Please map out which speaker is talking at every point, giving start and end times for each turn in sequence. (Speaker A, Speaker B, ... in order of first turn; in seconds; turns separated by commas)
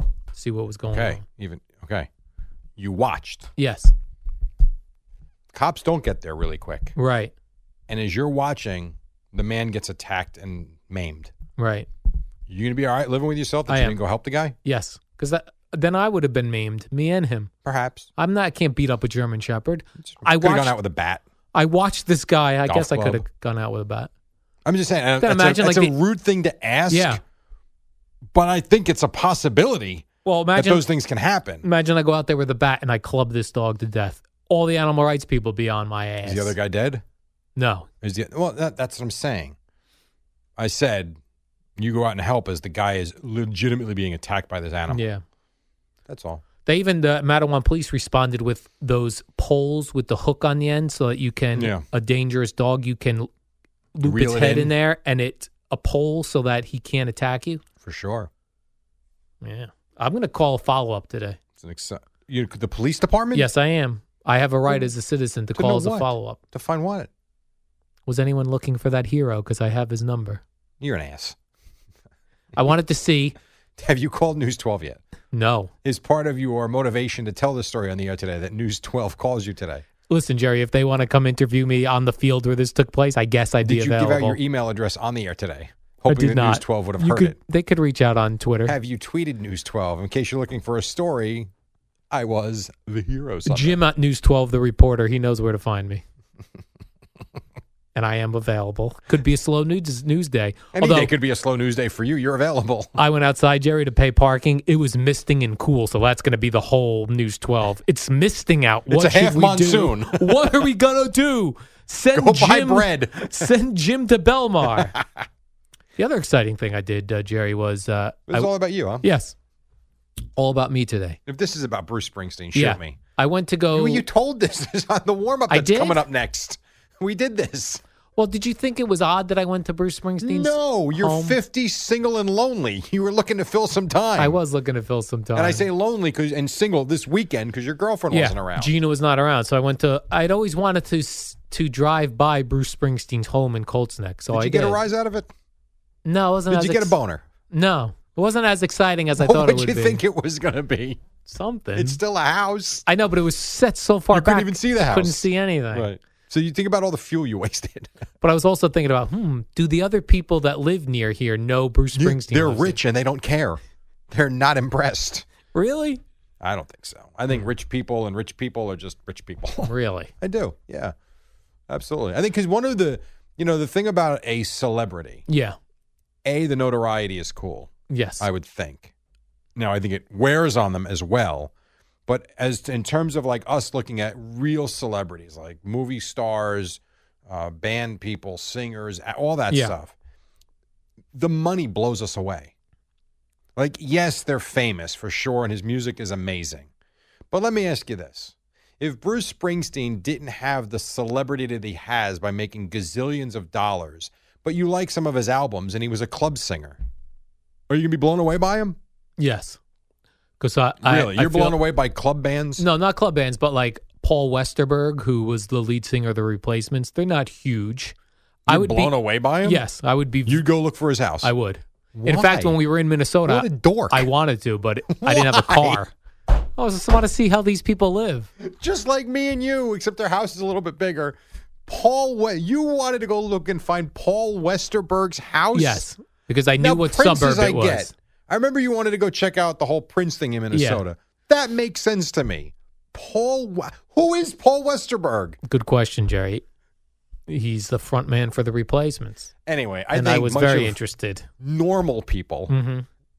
Speaker A: 0.3-1.2, Speaker B: 0.9-2.1, Speaker B: 2.8-3.5, Speaker A: 3.6-3.9, Speaker B: 5.5-7.0, Speaker A: 7.0-7.3, Speaker B: 7.9-11.3, Speaker A: 11.6-11.9, Speaker B: 12.5-14.6, Speaker A: 13.7-14.0, Speaker A: 14.7-17.5, Speaker B: 17.6-18.1, Speaker A: 18.2-20.7, Speaker B: 20.0-21.2, Speaker A: 21.5-24.1, Speaker B: 22.7-23.2, Speaker B: 24.6-27.2, Speaker A: 25.2-25.9, Speaker A: 26.9-27.2, Speaker B: 28.3-31.7, Speaker A: 30.2-30.9, Speaker A: 31.6-36.5, Speaker B: 36.2-37.0, Speaker A: 37.6-37.9, Speaker B: 38.0-39.6, Speaker B: 40.6-41.2, Speaker B: 41.8-45.0, Speaker A: 44.9-45.2, Speaker B: 46.1-46.4, Speaker A: 46.7-53.3, Speaker B: 51.5-51.8, Speaker A: 53.9-57.6, Speaker B: 54.0-54.7, Speaker B: 57.8-58.3, Speaker A: 59.4-61.4, Speaker B: 61.6-63.5, Speaker A: 63.3-66.4, Speaker B: 65.5-67.1, Speaker A: 68.1-70.4, Speaker B: 70.8-71.4, Speaker A: 72.6-73.3, Speaker B: 73.8-75.0, Speaker A: 75.3-75.7, Speaker B: 75.8-79.8, Speaker A: 80.1-84.4, Speaker B: 83.6-87.4, Speaker A: 86.1-88.8, Speaker B: 88.7-91.5, Speaker B: 92.1-93.8, Speaker A: 93.5-96.0, Speaker A: 98.0-101.1, Speaker B: 100.7-103.0, Speaker A: 103.0-115.0, Speaker B: 108.9-110.5, Speaker B: 112.1-113.5, Speaker B: 114.7-115.2, Speaker A: 116.0-118.5, Speaker B: 118.3-119.1, Speaker A: 119.0-119.3, Speaker A: 120.4-121.2, Speaker B: 121.3-123.0, Speaker A: 122.5-124.0, Speaker B: 123.7-127.8, Speaker A: 125.5-126.0, Speaker A: 128.2-131.4, Speaker B: 130.2-134.4, Speaker A: 134.2-135.7, Speaker B: 135.3-138.7, Speaker A: 138.1-144.8, Speaker B: 144.3-145.3, Speaker A: 146.1-147.0, Speaker B: 146.5-147.2, Speaker A: 147.5-150.0, Speaker B: 149.2-151.0, Speaker A: 151.3-152.0, Speaker B: 151.8-152.8, Speaker A: 152.9-155.9, Speaker B: 154.1-157.9, Speaker A: 158.2-162.8, Speaker B: 161.9-165.3, Speaker A: 165.5-166.0, Speaker B: 166.4-170.9, Speaker A: 169.6-170.1, Speaker B: 171.7-175.2, Speaker A: 175.3-175.6, Speaker B: 176.2-178.9, Speaker A: 177.9-178.3, Speaker B: 179.6-181.5, Speaker B: 182.1-189.9, Speaker B: 191.1-192.5, Speaker B: 193.6-196.7, Speaker B: 197.3-206.8, Speaker B: 207.7-208.8, Speaker A: 209.2-209.6, Speaker A: 210.4-211.6, Speaker B: 210.8-212.7, Speaker A: 212.6-217.9, Speaker B: 218.5-219.6, Speaker A: 218.5-220.4, Speaker B: 220.3-221.3, Speaker A: 221.2-225.9, Speaker B: 221.9-222.6, Speaker B: 223.3-224.1, Speaker B: 224.9-225.8, Speaker A: 226.6-228.3, Speaker B: 228.4-235.9, Speaker A: 235.5-237.9, Speaker B: 236.6-245.4, Speaker A: 240.5-240.8, Speaker A: 245.4-246.4, Speaker A: 247.3-249.3, Speaker B: 249.5-250.8, Speaker A: 249.9-251.3, Speaker B: 251.4-252.5, Speaker A: 252.5-252.9